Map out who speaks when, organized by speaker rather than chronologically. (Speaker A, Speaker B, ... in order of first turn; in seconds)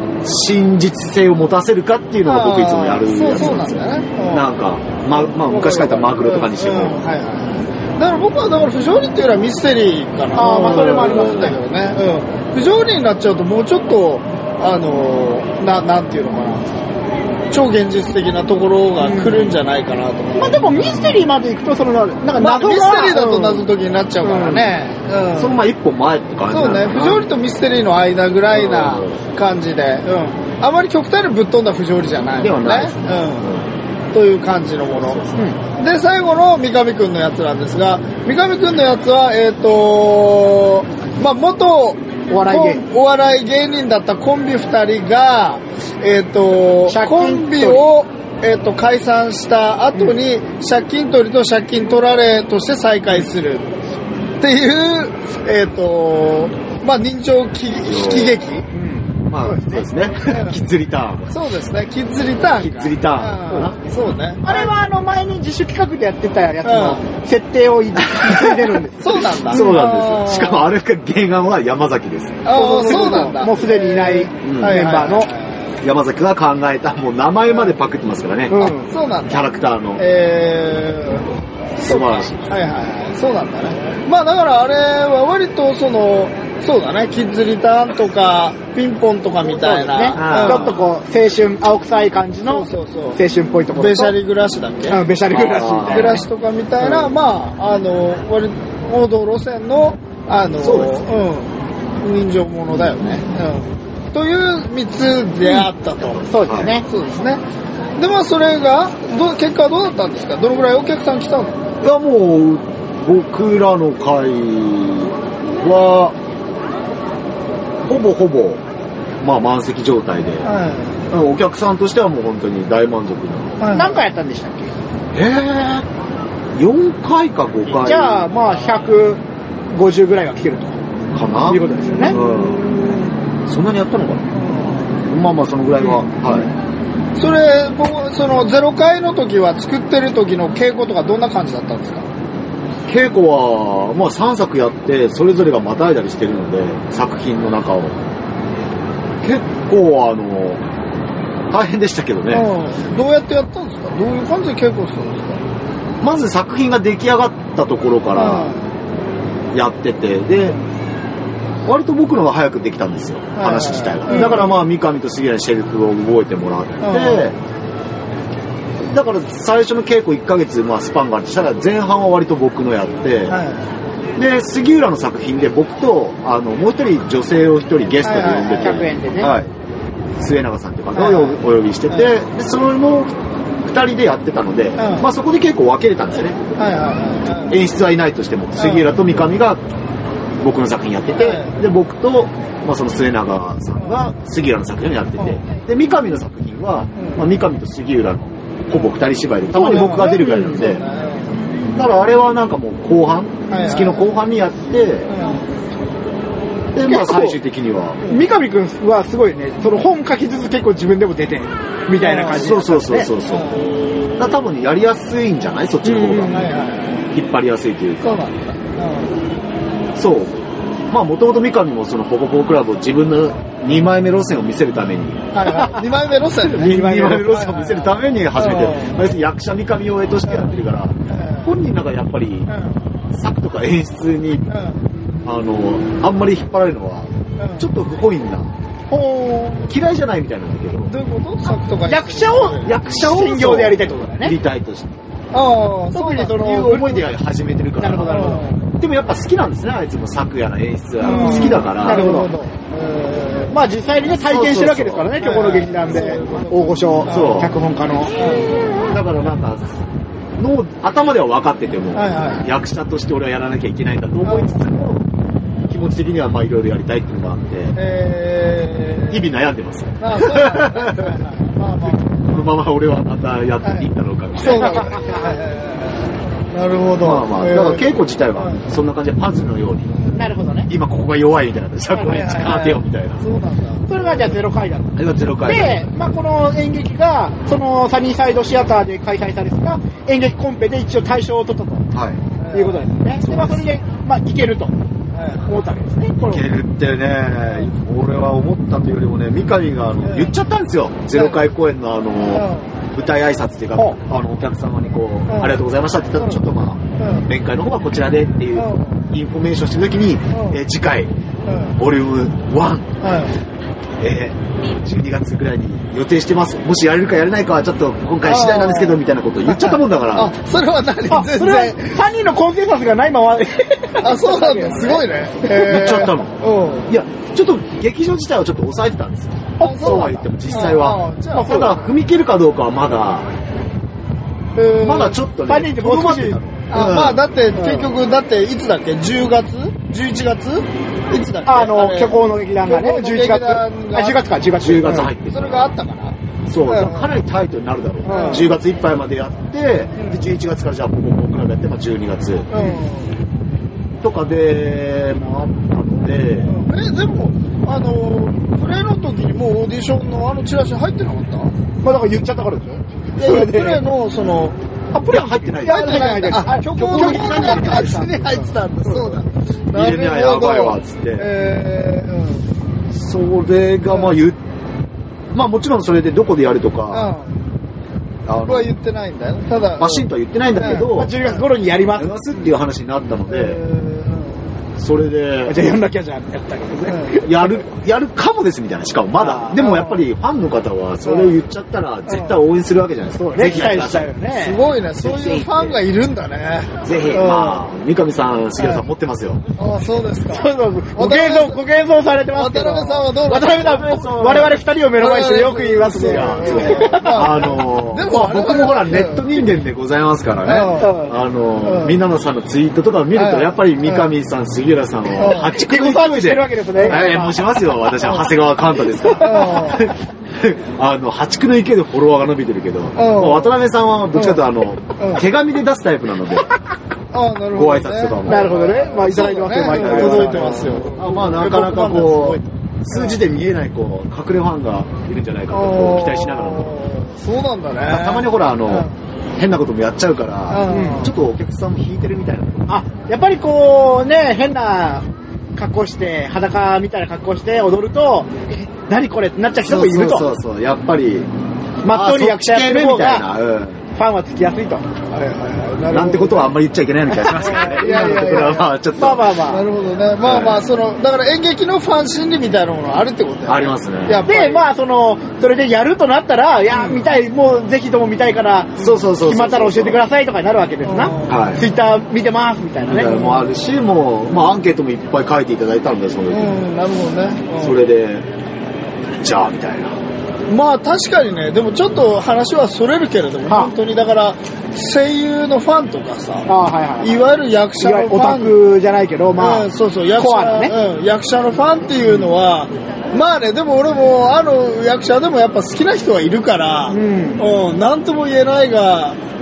Speaker A: 0.2-7.0, 10.6-11.6, 25.3-27.2, 28.5-29.2, 32.4-33.7, 34.9-35.4, 57.8-58.4, 59.3-61.3, 62.5-63.8, 68.1-68.7, 69.4-72.4, 74.4-74.9, 75.8-78.7, 79.3-80.0, 81.8-82.5, 90.2-90.8, 95.3-96.2, 100.6-101.0, 106.3-106.7, 111.8-116.2, 117.8-118.6, 119.2-120.5, 121.1-123.6, 125.1-125.9, 126.5-128.2, 131.1-132.7, 133.5-134.3, 135.0-136.5, 142.9-148.0, 149.2-150.6, 151.5-152.5, 156.0-158.6, 159.5-160.6, 161.7-167.4, 168.8-173.4, 174.2-179.5, 180.2-186.4, 187.5-189.6, 190.4-200.8, 201.7-205.1, 206.7-208.0, 212.3-213.6, 214.2-216.4, 217.1-218.2, 219.9-220.3, 220.9-225.3, 226.4-232.5, 233.1-234.5, 235.2-238.5, 239.7-240.9, 242.6-245.0, 246.3-252.1, 254.1-255.2, 255.9-256.5, 257.1-257.5, 258.6-259.8, 260.4-265.1, 265.7-267.7, 269.1-271.2, 271.9-274.9, 277.0-280.0, 280.7-283.2, 284.9-285.9, 291.9-292.2, 293.2-293.7, 296.2-311.1, 311.8-312.9, 314.0-320.3, 325.5-326.3, 326.9-333.3, 334.8-337.2, 344.6-345.7, 346.5-352.5, 354.0-356.6, 365.1-368.1, 369.7-371.3, 372.9-374.4, 375.3-377.1, 378.2-378.7, 379.8-381.1, 381.9-383.6, 384.8-385.6, 387.2-394.1, 395.0-395.8, 396.8-399.4, 403.3-404.6, 406.0-426.5, 427.5-428.6, 429.6-436.8, 437.9-442.7, 449.6-451.3, 451.9-453.8, 455.9-459.4, 460.2-460.6, 463.5-464.3, 468.8-470.0, 471.3-471.6, 472.9-476.6, 477.6-478.3, 479.2-479.9
Speaker B: 2.2-4.5, 5.4-16.7, 17.5-21.0, 22.4-25.6, 26.5-33.5, 34.1-53.7, 54.4-58.7, 60.3-60.6, 61.3-64.7, 66.6-67.0, 69.0-70.7, 72.4-75.5, 78.6-79.5, 80.0-81.3, 81.8-90.8, 92.5-93.2, 93.7-95.0, 95.9-107.4, 108.0-111.6, 120.4-121.0, 123.6-124.0, 127.7-128.9, 131.9-133.2, 134.3-135.0, 137.2-142.1, 152.3-155.4, 158.2-158.7, 163.3-164.6, 166.8-167.3, 173.3-173.6, 178.0-178.8, 180.9-181.4, 184.8-185.1, 186.6-187.6, 188.6-189.0, 191.2-191.6, 193.8-194.1, 197.0-197.2, 199.6-201.3, 203.5-204.1, 205.1-205.5, 212.0-212.5, 213.3-213.7, 216.3-217.1, 218.0-219.1, 225.3-229.1, 230.3-230.6, 231.1-231.5, 232.5-232.8, 234.5-234.8, 237.4-237.7, 240.9-242.8, 245.3-246.5, 248.1-248.6, 251.0-253.6, 255.2-256.4, 257.1-257.4, 258.1-258.6, 261.9-262.5, 264.2-264.6, 267.8-269.3, 270.0-272.3, 274.4-278.6, 279.9-280.3, 282.0-284.4, 292.4-292.9, 295.1-295.5, 300.0-300.3, 302.3-302.7, 305.3-305.6, 307.0-307.2, 308.6-309.0, 310.3-310.6, 311.4-311.8, 313.0-313.4, 318.2-322.0, 324.0-326.9, 329.6-331.8, 334.6-335.2, 336.7-344.3, 344.9-346.1, 346.7-347.1, 348.1-348.5, 349.9-350.2, 352.5-353.1, 356.4-361.5, 363.2-364.6, 365.6-372.4, 373.9-374.1, 376.9-377.4, 378.5-381.0, 383.3-384.4, 386.9-387.2, 389.6-390.0, 391.0-391.4, 392.1-392.4, 394.3-397.6, 399.6-401.6, 402.3-409.4, 410.4-411.0, 411.6-412.0, 413.1-414.1, 415.2-415.6, 419.2-419.9, 422.9-423.6, 424.1-424.4, 425.0-425.2, 427.1-433.2, 435.5-438.9, 440.5-441.1, 455.1-456.5, 457.3-458.7, 459.5-464.6, 466.7-467.0, 470.8-471.5, 473.0-473.4, 476.3-477.8, 480.5-486.5, 487.0-488.6, 489.4-499.2
Speaker C: 10.3-11.6, 19.0-19.4, 20.4-23.7, 24.2-24.7, 42.3-42.8, 46.9-47.9, 58.7-59.8, 64.4-69.7, 72.5-75.3, 78.5-78.9, 89.4-94.1, 94.9-96.2, 106.2-106.8, 123.7-124.7, 127.8-129.2, 129.7-130.8, 131.4-132.2, 178.6-179.3, 199.6-200.5, 206.8-207.4, 208.0-213.1, 215.8-216.5, 225.4-225.8, 226.5-227.3, 238.9-239.7, 241.8-244.3, 245.9-247.1, 247.8-248.5, 251.0-252.3, 253.5-258.1, 274.4-275.4, 280.1-280.7, 283.9-291.9, 292.5-294.7, 295.4-296.4, 321.1-325.7, 329.6-330.6, 331.3-331.8, 335.5-336.4, 337.6-337.9, 341.4-345.1, 348.1-348.5, 352.5-352.9, 361.8-363.8, 364.9-369.2, 380.7-382.1, 385.5-387.6, 389.2-389.6, 393.1-394.6, 400.2-407.4, 410.7-411.1, 415.5-417.4, 419.0-419.8, 428.2-430.9, 440.7-441.1, 442.7-450.3, 451.8-453.2, 453.9-454.8, 457.2-459.6, 464.2-473.2, 486.5-487.2, 487.8-490.7, 496.9-497.4